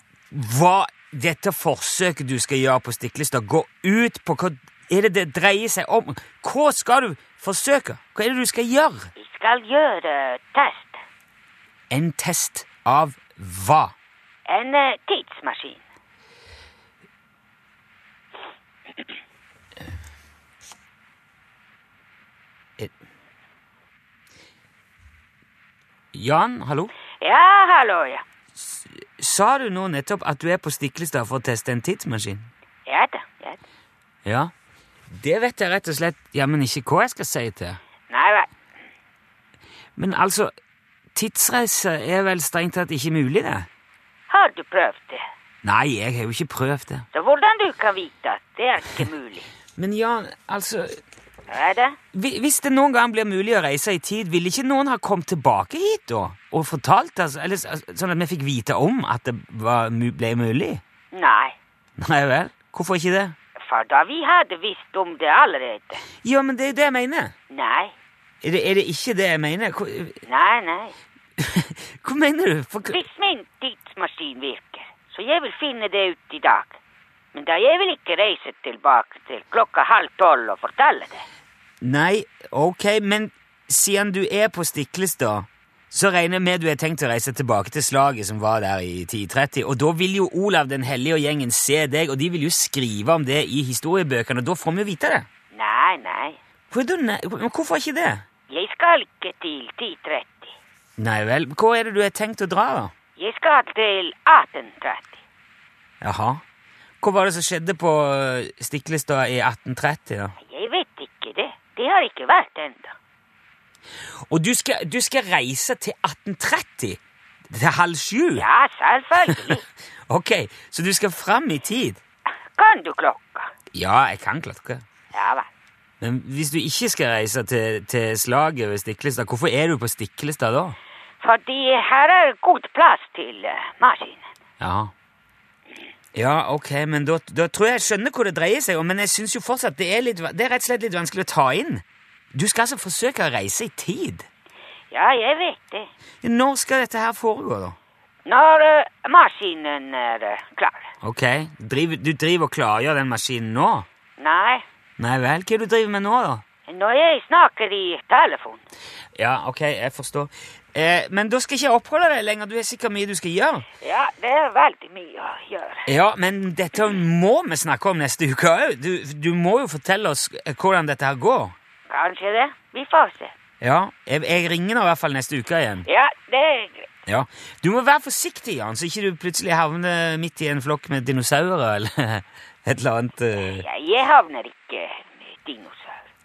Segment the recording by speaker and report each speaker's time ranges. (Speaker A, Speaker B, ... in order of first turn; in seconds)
Speaker A: 0.3-9.1, 11.9-13.9, 26.1-26.9, 28.7-32.5, 34.2-34.5, 35.1-37.8, 40.0-40.5, 41.1-43.7, 45.6-47.0, 49.8-51.0, 52.1-60.8, 62.0-63.3, 66.2-67.3, 68.4-70.2, 71.4-73.0, 81.8-95.2, 96.7-98.2, 101.0-102.9, 106.0-106.4, 107.0-110.3, 114.3-117.0, 117.5-118.5, 120.1-122.0, 123.7-124.8, 126.0-130.8, 134.6-134.9, 136.2-141.8, 142.3-144.3, 146.2-147.8, 151.0-153.9, 155.0-156.4, 159.2-163.7, 165.8-171.5, 173.6-175.9, 177.1-183.6
Speaker B: 9.2-11.0, 14.5-15.8, 27.2-28.2, 32.9-33.6, 38.1-38.5, 44.3-45.2, 47.1-49.5, 51.5-52.0, 61.1-61.5, 63.6-66.0, 67.5-67.9, 70.2-70.9, 72.9-76.8, 77.3-81.2, 95.5-96.4, 98.5-100.5, 103.2-105.2, 110.4-112.9, 118.3-119.6, 122.5-123.5, 125.1-125.5, 131.2-134.2, 144.9-145.9, 148.2-150.9, 154.2-154.7, 156.7-158.6, 163.8-165.9, 171.9-173.3, 175.8-176.9, 183.5-186.0